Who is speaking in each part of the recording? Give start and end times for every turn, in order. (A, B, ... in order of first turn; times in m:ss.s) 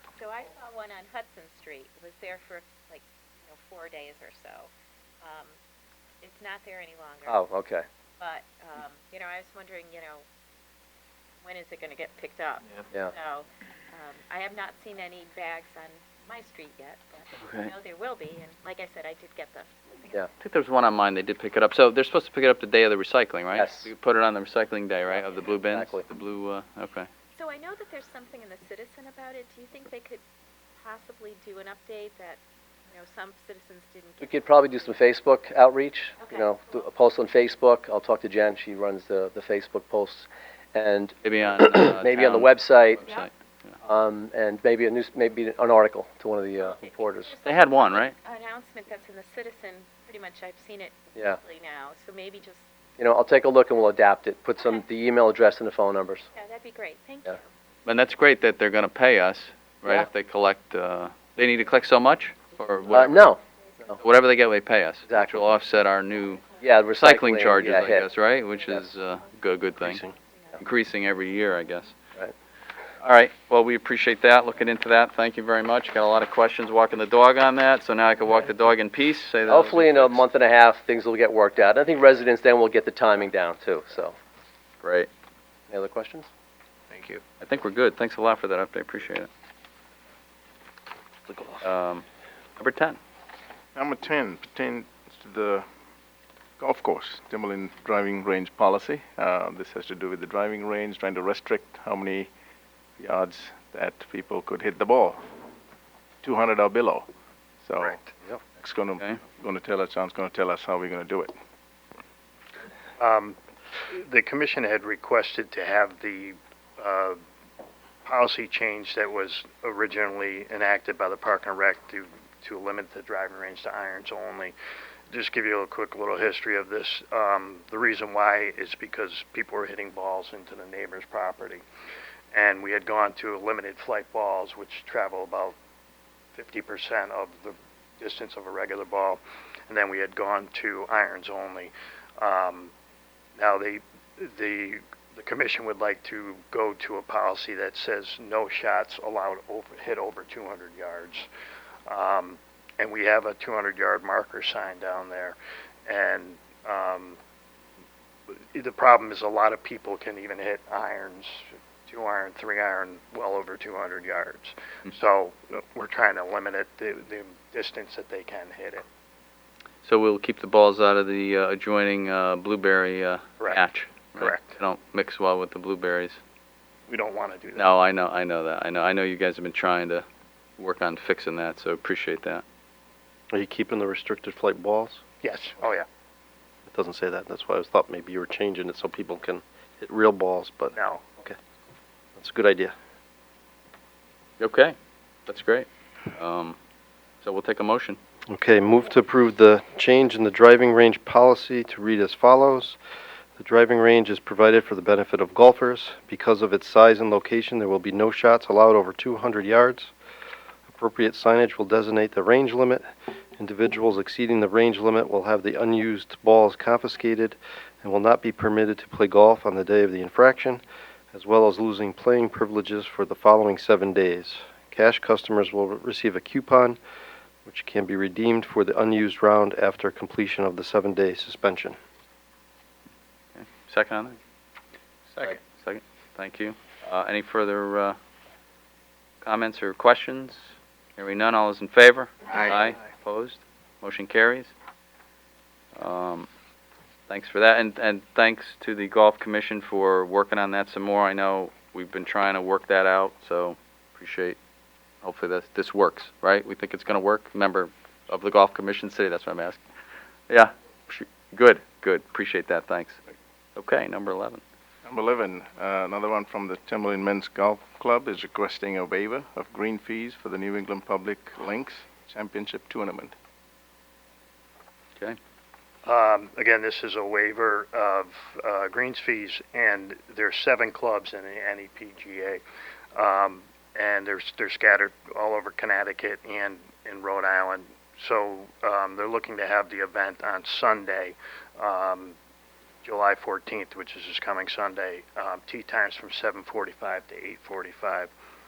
0:00.2-0:04.7 A
0:05.2-0:05.6 A
0:06.2-0:07.5 A
0:07.3-0:07.9 B
0:08.2-0:10.2 A
0:11.4-0:20.2 A
0:17.4-0:17.7 C
0:20.4-0:27.1 C
0:23.6-0:23.8 B
0:25.1-0:25.5 A
0:25.7-0:26.1 B
0:27.4-0:30.2 A
0:30.8-0:35.1 A
0:34.2-0:41.1 B
0:36.2-0:36.9 A
0:41.2-0:43.3 C
0:41.8-0:43.0 B
0:43.8-0:47.3 B
0:46.6-0:52.7 A
0:47.4-0:48.1 C
0:53.0-0:56.3 B
0:56.3-0:57.4 A
0:57.8-1:03.2 C
1:02.9-1:04.0 A
1:02.9-1:04.0 B
1:04.0-1:10.0 C
1:05.1-1:05.3 B
1:06.6-1:08.1 B
1:08.5-1:09.1 A
1:09.8-1:10.1 D
1:10.1-1:10.6 A
1:10.6-1:11.9 C
1:13.0-1:20.3 C
1:19.5-1:24.2 B
1:24.8-1:25.1 C
1:25.7-1:26.3 B
1:27.4-1:29.3 C
1:31.3-1:32.1 C
1:32.6-1:33.0 C
1:33.8-1:35.7 E
1:36.6-1:42.3 E
1:43.0-1:45.2 E
1:46.2-1:47.1 E
1:47.6-1:51.4 E
1:47.8-1:48.1 F
1:53.0-1:57.2 F
1:58.0-2:04.6 F
2:05.1-2:11.6 F
2:12.3-2:15.6 F
2:16.3-2:22.7 F
2:23.4-2:31.3 F
2:31.9-2:37.2 F
2:38.5-2:48.9 F
2:49.8-2:56.2 C
2:54.2-2:54.5 F
2:56.9-2:57.7 F
2:57.6-3:00.0 C
3:00.6-3:02.4 C
3:03.3-3:05.0 D
3:05.2-3:05.9 F
3:06.7-3:11.4 D
3:10.8-3:11.0 F
3:12.2-3:12.8 D
3:14.4-3:14.8 C
3:15.3-3:16.6 C
3:17.2-3:18.0 C
3:18.3-3:22.8 D
3:23.4-3:29.9 D
3:30.7-3:40.6 D
3:41.1-3:46.8 D
3:47.4-3:51.8 D
3:53.4-3:54.2 C
3:55.1-3:58.0 C
3:59.2-4:00.4 C
4:01.0-4:04.5 C
4:05.8-4:06.3 C
4:07.1-4:14.4 C
4:15.0-4:19.6 C
4:20.3-4:23.0 C
4:23.6-4:24.4 C
4:24.8-4:33.1 E
4:35.8-4:42.4 F
4:42.9-4:52.2 F
4:52.8-4:58.1 F